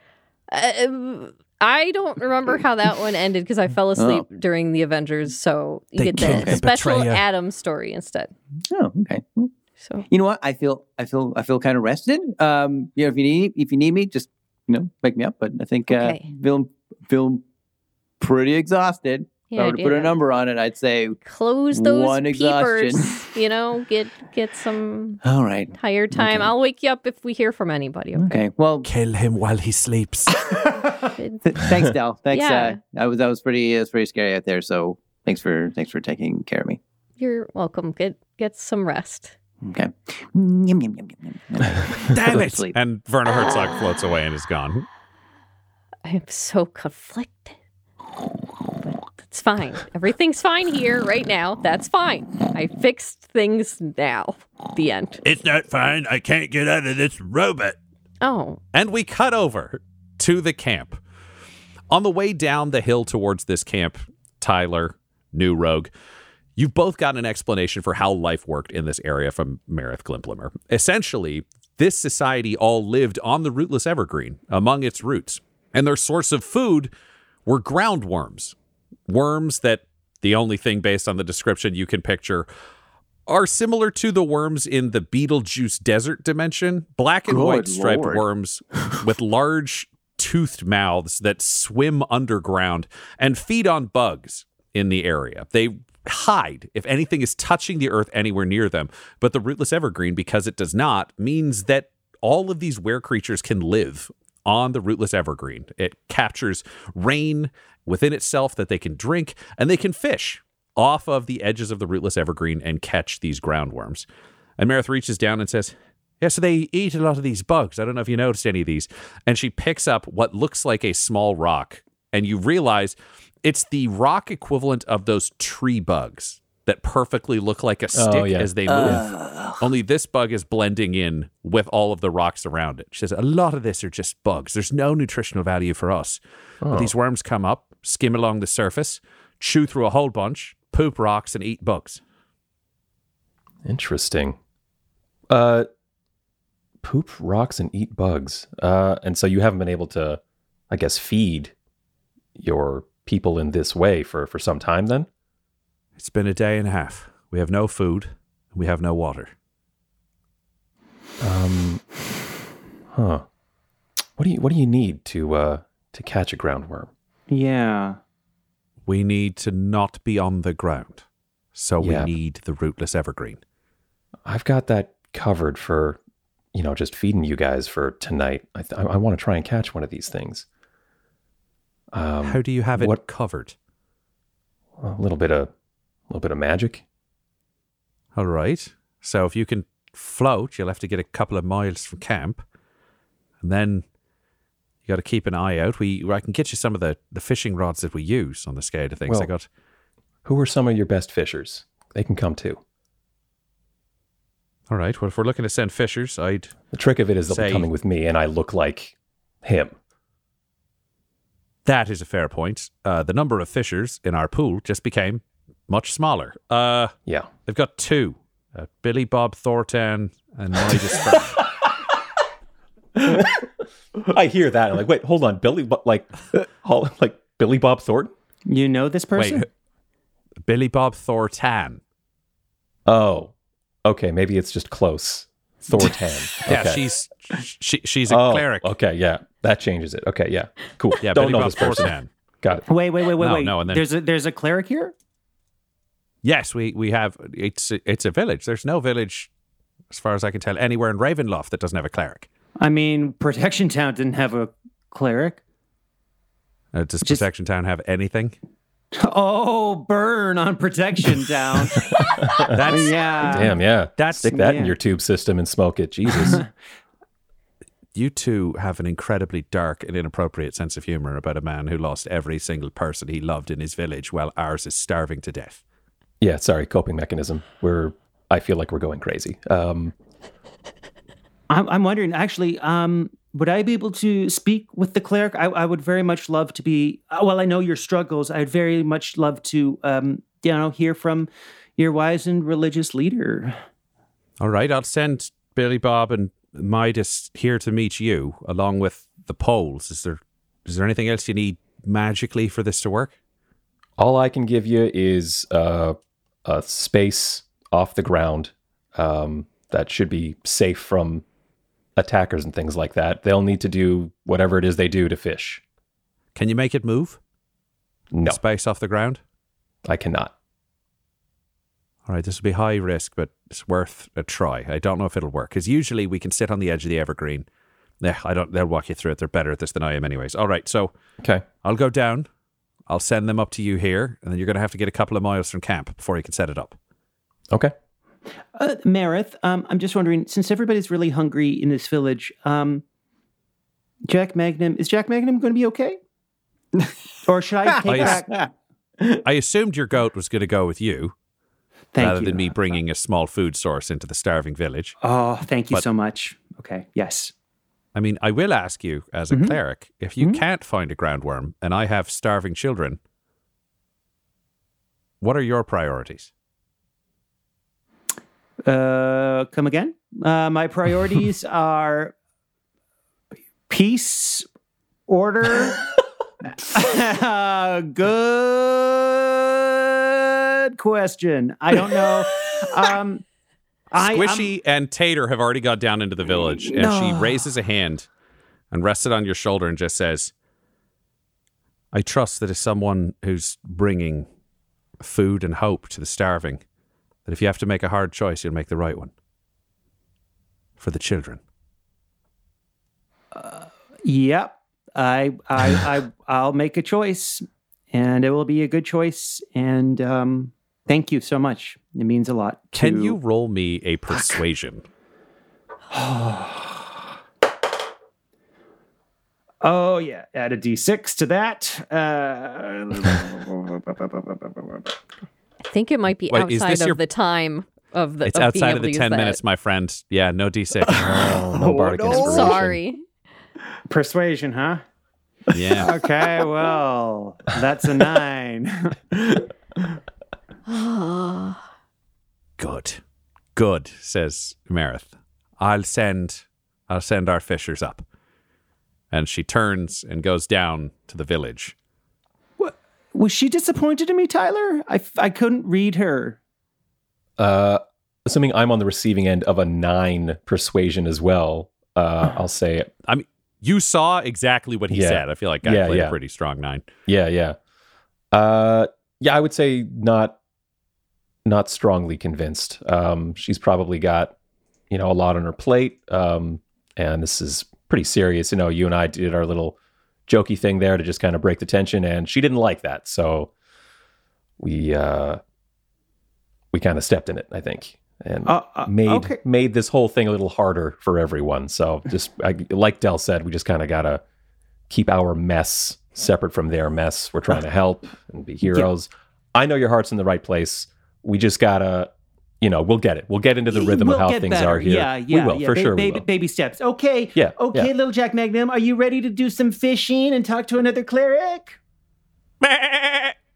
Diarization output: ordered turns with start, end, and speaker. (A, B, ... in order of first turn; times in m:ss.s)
0:00.5-0:08.3 A
0:04.0-0:04.2 B
0:06.0-0:07.2 C
0:06.2-0:06.6 B
0:08.7-0:09.5 B
0:09.8-0:10.1 A
0:10.1-0:17.4 B
0:15.9-0:16.3 A
0:18.2-0:21.2 B
0:19.5-0:20.2 A
0:21.2-0:25.2 A
0:21.7-0:23.2 B
0:25.2-0:26.5 B
0:25.7-0:28.4 A
0:28.2-0:28.9 B
0:28.8-0:30.5 C
0:31.2-0:31.7 A
0:31.4-0:36.8 B
0:32.3-0:32.8 A
0:37.2-0:39.3 A
0:39.6-0:42.7 B
0:42.1-0:44.9 C
0:46.1-0:47.5 A
0:49.2-0:55.2 A
0:55.2-0:57.8 D
0:58.2-0:58.6 A
0:58.7-1:01.0 C
1:01.9-1:05.9 C
1:06.6-1:16.9 C
1:17.4-1:18.5 C
1:19.1-1:22.5 C
1:23.3-1:54.0 C
1:27.3-1:28.2 B
1:54.6-2:16.2 C
2:07.9-2:09.1 E
2:08.7-2:09.5 B
2:16.6-2:16.9 E
2:16.7-2:22.0 C
2:23.6-2:24.4 E
2:25.3-2:25.7 E
2:26.8-2:31.5 E
2:32.4-2:35.1 E
2:36.0-2:39.3 C
2:41.2-2:41.8 E
2:42.9-2:43.2 E
2:44.2-2:46.9 E
2:47.3-2:48.0 F
2:48.8-2:53.4 C
2:51.8-2:52.1 E
2:54.2-2:56.0 E
2:56.5-3:00.4 E
3:01.9-3:03.0 E
3:02.2-3:03.6 C
3:04.8-3:05.5 E
3:06.1-3:06.8 E
3:08.1-3:12.4 C
3:13.4-3:13.8 C
3:14.8-3:19.4 C
3:20.2-3:22.6 E
3:24.7-3:26.6 C
3:26.7-3:29.7 E
3:27.3-3:27.7 C
3:31.6-3:36.9 C
3:37.4-3:41.4 C
3:43.1-3:43.4 E
3:44.1-3:48.1 E
3:48.5-3:49.5 F
3:49.1-3:49.4 C
3:50.4-3:51.8 C
3:52.8-3:53.3 E
3:53.8-3:56.8 E
3:56.4-3:58.7 C
3:58.1-4:02.6 E
4:01.0-4:02.1 C
4:02.7-4:04.9 F
4:03.1-4:03.8 C
4:06.2-4:09.3 C
4:09.9-4:12.3 C
4:12.6-4:15.4 F
4:16.7-4:18.4 C
4:19.0-4:23.6 F
4:22.5-4:24.3 C
4:23.3-4:26.4 E
4:24.2-4:24.7 F
4:26.2-4:26.5 F
4:27.9-4:35.6 C
4:36.2-4:39.9 E
4:41.5-4:53.6 F
4:54.4-5:03.1 C
5:04.0-5:11.2 E
5:12.0-5:15.6 E
5:16.4-5:17.2 C
5:18.1-5:18.4 E
5:18.2-5:19.2 C
5:19.8-5:20.3 E
5:22.0-5:27.4 C
5:28.0-5:30.9 C
5:31.6-5:32.2 C
5:32.9-5:36.8 C
5:38.6-5:42.8 F
5:44.1-5:46.0 F
5:47.2-5:48.4 F
5:47.8-5:48.3 B
5:47.8-5:48.2 C
5:49.2-5:51.1 C
5:51.9-5:52.5 F
5:52.0-5:55.0 C
5:55.0-5:57.3 F
5:57.9-6:03.0 C
5:59.3-5:59.6 F
6:05.2-6:06.3 C
6:08.7-6:12.1 F
6:13.7-6:14.5 F
6:15.1-6:15.8 F
6:16.6-6:23.2 F
6:23.9-6:24.5 F
6:24.0-6:28.1 C
6:26.6-6:27.4 F
6:28.7-6:30.3 C
6:31.9-6:34.3 C
6:35.0-6:36.6 C
6:37.2-6:39.1 C
6:40.8-6:41.4 C
6:43.3-6:53.2 F
6:52.7-6:54.8 C
6:54.1-6:54.4 F
6:55.9-6:57.0 F
6:59.6-7:04.9 F
7:05.7-7:09.4 A
7:06.3-7:07.0 C
7:08.2-7:11.0 C
7:10.9-7:12.8 E
7:11.4-7:12.6 F
7:12.1-7:13.0 A
7:13.9-7:14.8 F
7:15.5-7:15.9 C
7:15.7-7:19.0 F
7:20.7-7:21.6 A
7:22.6-7:23.0 C
7:23.5-7:28.0 C
7:29.1-7:31.7 C
7:32.6-7:36.4 F
7:37.4-7:42.9 E
7:43.1-7:46.8 C
7:44.9-7:46.2 E
7:47.1-7:47.6 E
7:48.3-7:50.4 E
7:51.4-7:54.3 E
7:54.9-7:59.8 E
8:00.3-8:03.5 E
8:04.6-8:05.4 E
8:06.7-8:14.2 E
8:08.4-8:09.4 F
8:14.9-8:26.2 E
8:23.7-8:31.8 F
8:27.3-8:27.9 E
8:32.6-8:33.3 C